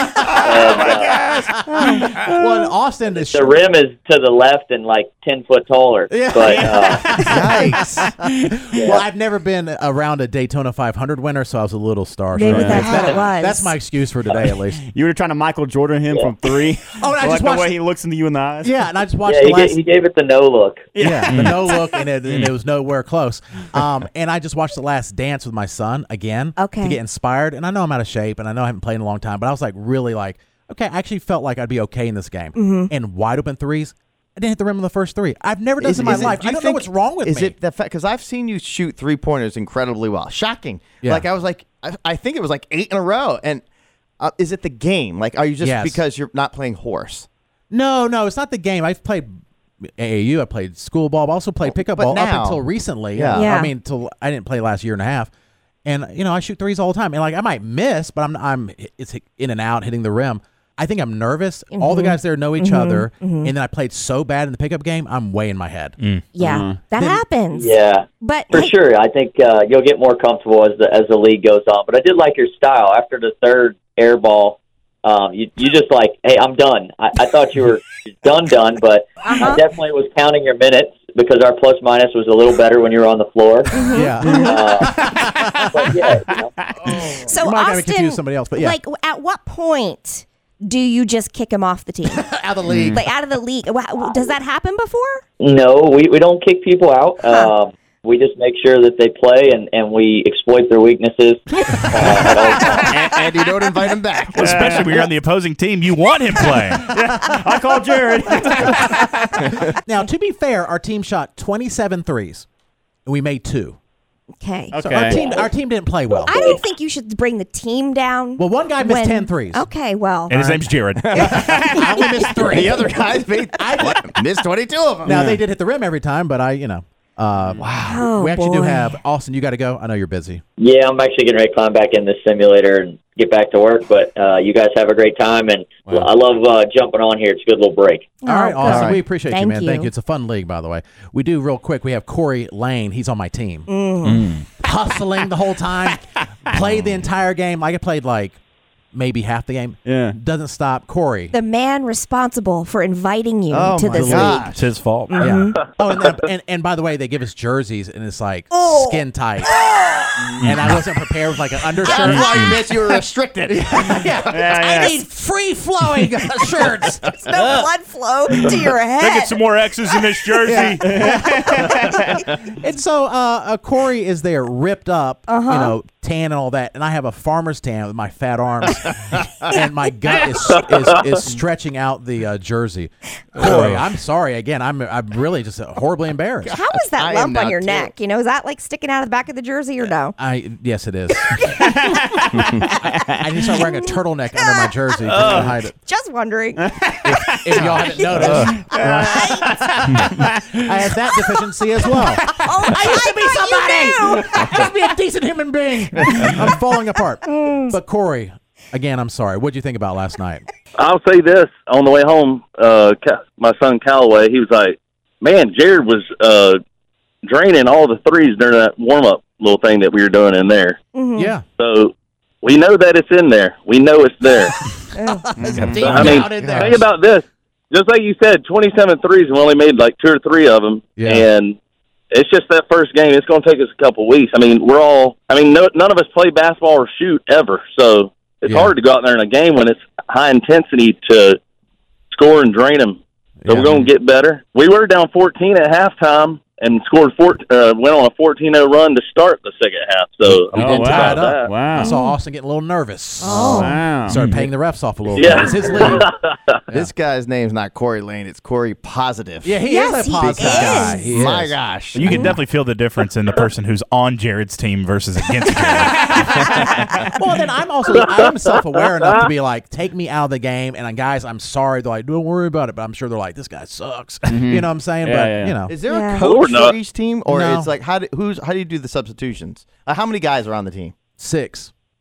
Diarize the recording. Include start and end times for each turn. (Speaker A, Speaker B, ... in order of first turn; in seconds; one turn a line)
Speaker A: 0.2-2.0
Speaker B: 0.3-1.2
Speaker C: 1.6-3.5
Speaker D: 1.9-2.2
Speaker B: 3.1-7.0
Speaker C: 6.1-14.8
Speaker E: 6.6-7.6
Speaker A: 7.2-8.0
Speaker B: 8.8-9.0
Speaker D: 12.3-13.8
Speaker E: 12.5-13.2
Speaker A: 12.8-13.1
Speaker E: 14.4-18.8
Speaker C: 16.9-17.8
Speaker C: 18.6-19.8
Speaker B: 19.2-20.9
Speaker E: 20.9-22.0
Speaker C: 21.0-37.5
Speaker F: 21.2-21.6
Speaker D: 26.6-27.0
Speaker D: 32.5-32.9
Speaker A: 35.8-43.6
Speaker A: 44.2-47.3
Speaker C: 45.6-46.0
Speaker C: 47.7-49.3
Speaker C: 50.0-55.3
Speaker A: 51.9-53.5
Speaker D: 53.3-53.7
Speaker C: 55.9-66.0
Speaker D: 61.7-63.5
Speaker D: 66.3-68.7
Speaker E: 66.4-66.8
Speaker C: 66.9-67.2
Speaker B: 67.5-83.9
Speaker D: 79.2-79.6
Speaker D: 83.7-84.6
Speaker C: 83.9-85.9
Speaker E: 84.2-84.5
Speaker B: 84.5-85.1
Speaker E: 85.0-85.7
Speaker B: 85.7-86.5
Speaker E: 86.3-86.8
Speaker C: 86.9-88.8
Speaker D: 87.1-95.2
Speaker C: 92.2-93.0
Speaker E: 92.7-93.0
Speaker B: 95.4-102.9
Speaker D: 97.2-97.5
Speaker A: 101.9-104.8
Speaker F: 104.3-106.9
Speaker E: 104.4-105.0
Speaker E: 106.7-109.3
Speaker C: 109.5-112.5
Speaker C: 113.0-113.8
Speaker D: 114.4-115.5
Speaker E: 114.7-115.2
Speaker C: 114.8-116.6
Speaker D: 116.2-120.4
Speaker C: 118.4-119.7
Speaker F: 120.3-121.7
Speaker A: 121.0-125.2
Speaker C: 121.2-122.9
Speaker D: 121.8-122.2
Speaker C: 123.6-124.1
Speaker C: 125.0-130.4
Speaker E: 125.1-125.4
Speaker E: 127.5-127.7
Speaker A: 127.6-128.1
Speaker D: 127.7-129.0
Speaker B: 130.6-138.2
Speaker D: 138.2-139.9
Speaker C: 138.3-143.7
Speaker A: 138.7-139.0
Speaker D: 143.7-144.2
Speaker F: 144.0-144.5
Speaker C: 144.6-148.4
Speaker C: 148.9-151.3
Speaker E: 149.8-150.2
Speaker D: 151.3-154.6
Speaker A: 153.5-154.6
Speaker C: 153.9-154.4
Speaker F: 154.4-155.3
Speaker D: 155.1-155.6
Speaker C: 155.2-159.5
Speaker D: 158.5-159.0
Speaker E: 160.2-160.4
Speaker F: 160.4-160.8
Speaker C: 160.4-162.5
Speaker A: 161.8-164.4
Speaker F: 162.1-162.5
Speaker C: 163.6-167.2
Speaker E: 164.3-165.0
Speaker D: 164.6-164.9
Speaker D: 167.0-169.4
Speaker F: 169.0-170.9
Speaker C: 170.5-186.5
Speaker E: 170.8-171.7
Speaker D: 175.3-175.7
Speaker F: 183.4-183.8
Speaker D: 186.4-190.2
Speaker A: 186.5-187.9
Speaker C: 190.2-191.7
Speaker D: 191.3-192.5
Speaker E: 191.6-193.2
Speaker C: 192.6-195.8
Speaker D: 194.3-194.7
Speaker E: 195.1-195.5
Speaker D: 195.7-196.7
Speaker E: 196.6-200.7
Speaker C: 197.0-210.4
Speaker D: 197.9-199.5
Speaker D: 202.3-204.2
Speaker D: 207.2-207.8
Speaker G: 210.8-216.6
Speaker G: 217.2-220.8
Speaker D: 220.9-221.4
Speaker C: 221.2-221.4
Speaker G: 221.5-221.9
Speaker G: 222.4-224.5
Speaker D: 224.9-225.3
Speaker E: 225.3-226.1
Speaker C: 225.4-226.8
Speaker A: 225.5-226.8
Speaker G: 225.8-231.6
Speaker C: 231.0-231.2
Speaker G: 232.1-241.4
Speaker C: 238.5-238.7
Speaker G: 242.1-251.5
Speaker C: 243.4-243.8
Speaker C: 250.2-256.1
Speaker E: 250.5-251.9
Speaker D: 251.7-252.2
Speaker D: 253.2-253.8
Speaker E: 253.5-254.2
Speaker F: 254.1-254.5
Speaker G: 255.1-256.3
Speaker B: 255.4-256.0
Speaker A: 256.7-259.5
Speaker C: 259.4-261.6
Speaker D: 259.6-261.1
Speaker A: 260.2-262.2
Speaker F: 261.9-267.1
Speaker D: 262.0-262.4
Speaker C: 267.1-275.7
Speaker E: 274.3-275.6
Speaker A: 275.7-280.9
Speaker D: 275.9-276.2
Speaker G: 276.2-276.8
Speaker C: 277.3-277.7
Speaker C: 281.2-281.7